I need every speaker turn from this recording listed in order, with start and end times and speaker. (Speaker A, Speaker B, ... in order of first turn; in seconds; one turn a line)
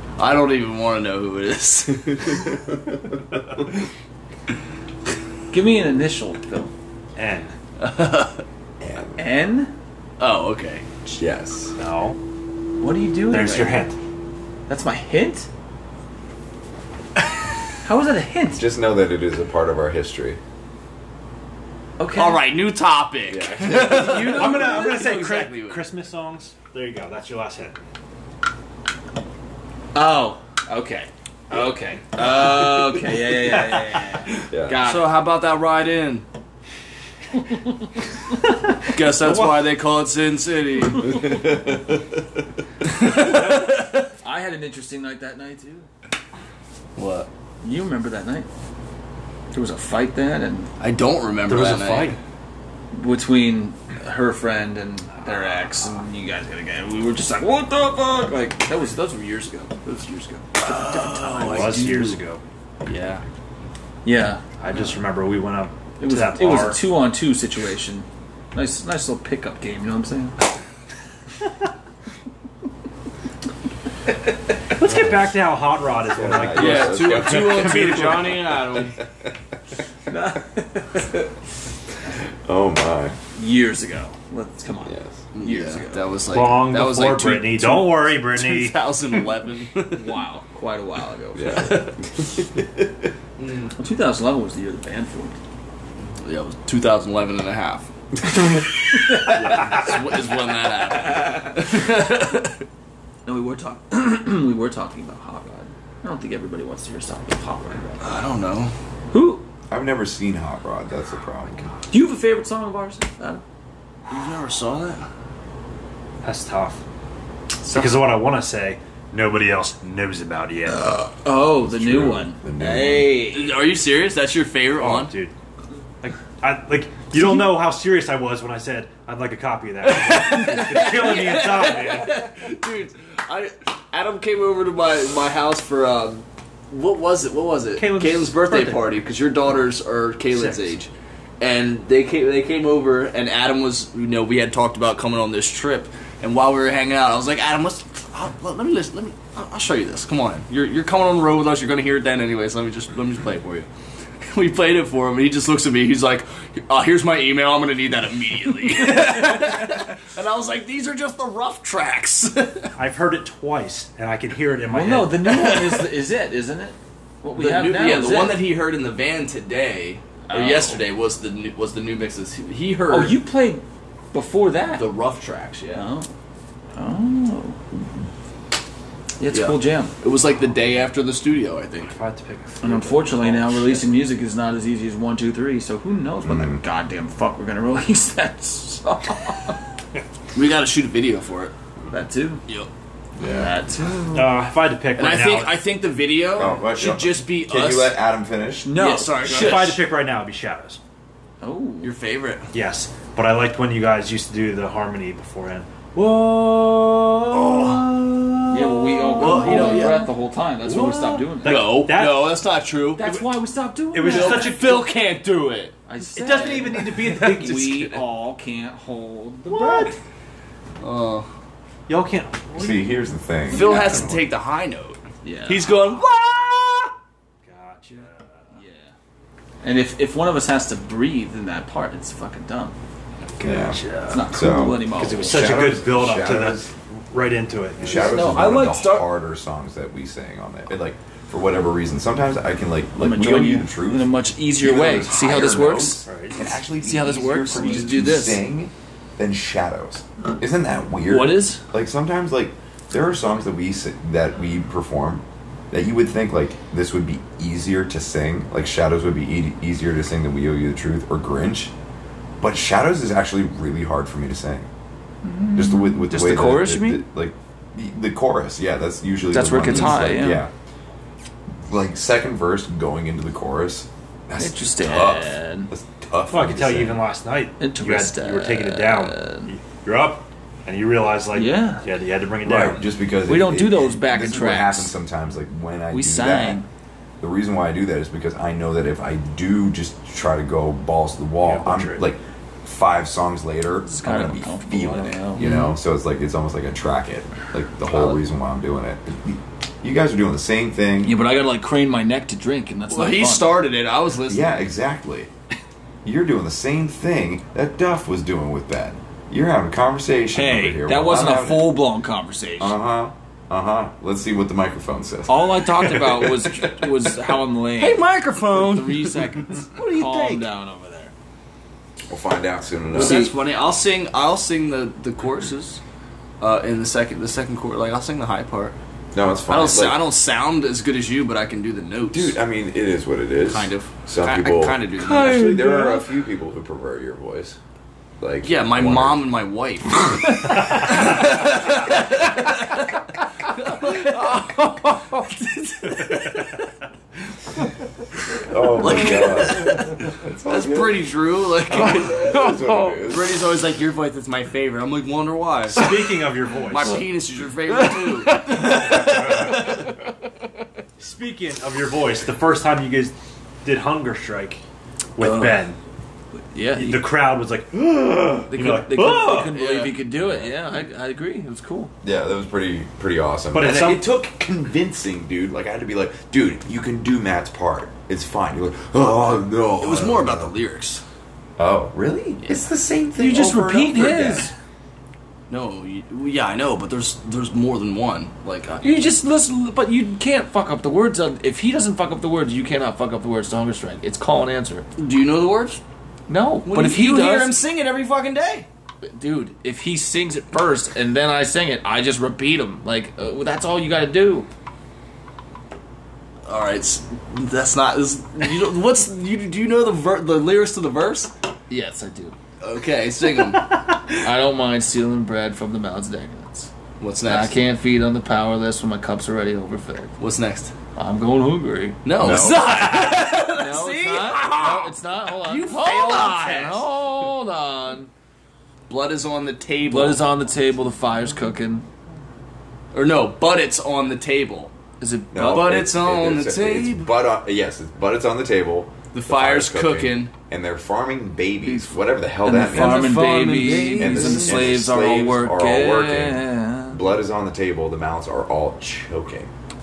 Speaker A: 0.2-2.5
Speaker B: 2.5-3.6
Speaker C: 5.5-6.7
Speaker D: 7.2-7.5
Speaker A: 7.8-8.4
Speaker B: 8.8-9.3
Speaker C: 9.2-9.7
Speaker A: 10.2-10.9
Speaker B: 11.1-11.8
Speaker D: 11.8-12.2
Speaker C: 12.8-13.9
Speaker D: 13.3-14.0
Speaker C: 14.7-15.5
Speaker C: 17.9-18.6
Speaker B: 18.6-20.4
Speaker C: 22.0-22.4
Speaker A: 22.1-25.9
Speaker B: 23.3-24.3
Speaker D: 23.7-27.8
Speaker C: 24.1-24.9
Speaker C: 29.9-35.1
Speaker B: 34.5-34.8
Speaker A: 34.8-36.2
Speaker A: 38.9-41.3
Speaker D: 39.2-39.6
Speaker B: 41.1-42.2
Speaker A: 42.9-44.1
Speaker C: 44.2-45.9
Speaker A: 47.0-47.3
Speaker C: 47.6-48.5
Speaker C: 49.5-50.7
Speaker A: 50.8-52.2
Speaker D: 51.5-52.2
Speaker C: 52.9-61.9
Speaker A: 60.6-62.2
Speaker D: 61.4-62.4
Speaker A: 62.9-63.2
Speaker C: 64.0-64.4
Speaker D: 64.6-66.8
Speaker C: 66.0-70.3
Speaker D: 74.8-78.6
Speaker B: 76.0-79.4
Speaker A: 76.5-79.0
Speaker C: 80.1-81.3
Speaker B: 82.5-83.2
Speaker C: 83.4-86.1
Speaker B: 84.9-85.2
Speaker A: 85.3-90.2
Speaker D: 86.3-88.8
Speaker C: 89.9-91.8
Speaker B: 91.3-93.1
Speaker A: 91.5-91.9
Speaker A: 93.4-93.7
Speaker C: 93.8-95.4
Speaker A: 96.2-97.9
Speaker A: 99.1-102.6
Speaker C: 103.3-108.0
Speaker A: 108.0-108.7
Speaker C: 109.1-109.5
Speaker B: 109.7-111.8
Speaker C: 111.9-113.4
Speaker A: 114.1-115.1
Speaker D: 116.2-116.8
Speaker D: 117.7-120.9
Speaker C: 120.7-123.6
Speaker B: 121.5-123.2
Speaker A: 123.3-125.1
Speaker D: 124.8-125.3
Speaker D: 126.0-132.3
Speaker A: 129.8-153.7
Speaker D: 137.8-138.9
Speaker D: 140.3-140.7
Speaker A: 154.2-162.7
Speaker D: 162.8-165.2
Speaker C: 164.7-168.4
Speaker A: 165.2-165.9
Speaker A: 167.3-173.2
Speaker C: 170.3-170.8
Speaker C: 172.9-174.8
Speaker A: 174.8-175.9
Speaker C: 175.7-176.1
Speaker C: 176.8-177.8
Speaker C: 179.2-179.9
Speaker A: 179.3-181.9
Speaker D: 181.9-183.9
Speaker C: 182.6-189.6
Speaker B: 186.2-186.6
Speaker A: 190.3-191.5
Speaker C: 191.9-192.4
Speaker B: 193.2-193.5
Speaker C: 193.2-194.4
Speaker D: 194.1-195.5
Speaker A: 195.0-198.0
Speaker B: 196.3-198.8
Speaker C: 198.6-199.8
Speaker A: 198.8-199.8
Speaker D: 199.2-200.8
Speaker C: 201.4-201.9
Speaker A: 201.8-202.5
Speaker D: 202.5-210.1
Speaker A: 207.3-210.1
Speaker C: 208.5-211.7
Speaker A: 210.6-213.1
Speaker D: 211.4-212.4
Speaker C: 213.0-214.8
Speaker D: 213.9-214.9
Speaker A: 214.0-215.8
Speaker C: 215.9-220.0
Speaker D: 216.2-217.9
Speaker A: 216.9-217.8
Speaker D: 219.5-219.9
Speaker A: 220.8-221.3
Speaker D: 221.9-224.3
Speaker B: 222.6-224.2
Speaker A: 223.5-226.9
Speaker C: 225.2-226.0
Speaker D: 227.4-228.5
Speaker C: 228.5-228.9
Speaker C: 229.6-232.8
Speaker D: 233.4-238.5
Speaker B: 233.4-236.7
Speaker C: 234.1-235.7
Speaker B: 237.8-261.7
Speaker C: 237.9-239.1
Speaker C: 243.0-246.1
Speaker D: 246.1-246.4
Speaker C: 246.8-248.3
Speaker A: 247.5-248.4
Speaker C: 251.1-251.6
Speaker B: 262.4-264.7
Speaker C: 265.2-267.0
Speaker B: 265.5-270.5
Speaker C: 269.3-270.4
Speaker B: 271.7-277.0
Speaker C: 274.4-275.7
Speaker D: 276.3-282.9
Speaker C: 277.6-279.5
Speaker C: 281.3-281.9
Speaker B: 282.4-286.6
Speaker C: 283.3-284.9
Speaker C: 285.9-286.7
Speaker B: 287.2-301.2
Speaker D: 291.4-292.1
Speaker C: 293.8-295.5
Speaker A: 295.4-295.8
Speaker A: 297.9-298.2
Speaker C: 301.0-303.6
Speaker A: 302.9-304.5
Speaker B: 304.3-305.3
Speaker B: 306.1-311.8
Speaker C: 310.3-312.8
Speaker B: 312.6-317.3
Speaker C: 315.3-321.1
Speaker A: 317.8-319.2
Speaker A: 319.8-320.4
Speaker B: 322.1-323.3
Speaker A: 322.9-325.8
Speaker C: 322.9-323.4
Speaker A: 326.4-328.8
Speaker B: 329.1-330.0
Speaker A: 329.5-332.4
Speaker B: 332.1-337.6
Speaker A: 333.5-335.4
Speaker C: 335.0-336.1
Speaker B: 338.2-339.2
Speaker A: 338.4-345.0
Speaker C: 343.8-346.1
Speaker A: 345.8-346.3
Speaker B: 348.5-351.1
Speaker A: 348.8-360.0
Speaker C: 349.0-349.5
Speaker B: 351.7-353.4
Speaker C: 352.6-352.9
Speaker D: 355.7-357.0
Speaker C: 357.8-359.8
Speaker D: 358.6-359.7
Speaker D: 361.0-364.6
Speaker D: 365.2-365.8
Speaker C: 365.2-365.7
Speaker C: 366.4-367.1
Speaker D: 366.8-369.6
Speaker C: 368.5-371.9
Speaker A: 369.5-370.0
Speaker B: 370.2-370.5
Speaker B: 372.0-380.5
Speaker D: 373.5-374.1
Speaker A: 379.8-381.0
Speaker B: 381.6-384.5
Speaker C: 383.2-384.5
Speaker A: 385.5-388.9
Speaker C: 388.8-394.9
Speaker A: 395.0-395.8
Speaker C: 396.3-397.6
Speaker A: 396.7-398.7
Speaker C: 399.0-404.5
Speaker A: 406.5-411.3
Speaker C: 411.7-412.4
Speaker A: 412.6-413.8
Speaker C: 414.1-416.7
Speaker A: 417.0-417.6
Speaker C: 417.2-420.1
Speaker A: 420.2-420.7
Speaker C: 421.0-428.1
Speaker A: 422.1-426.9
Speaker B: 422.2-422.6
Speaker A: 428.9-430.2
Speaker C: 429.9-431.9
Speaker A: 432.9-434.7
Speaker C: 435.0-435.7
Speaker B: 435.3-449.5
Speaker A: 435.5-437.1
Speaker A: 439.1-440.3
Speaker C: 441.7-447.0
Speaker A: 442.6-444.8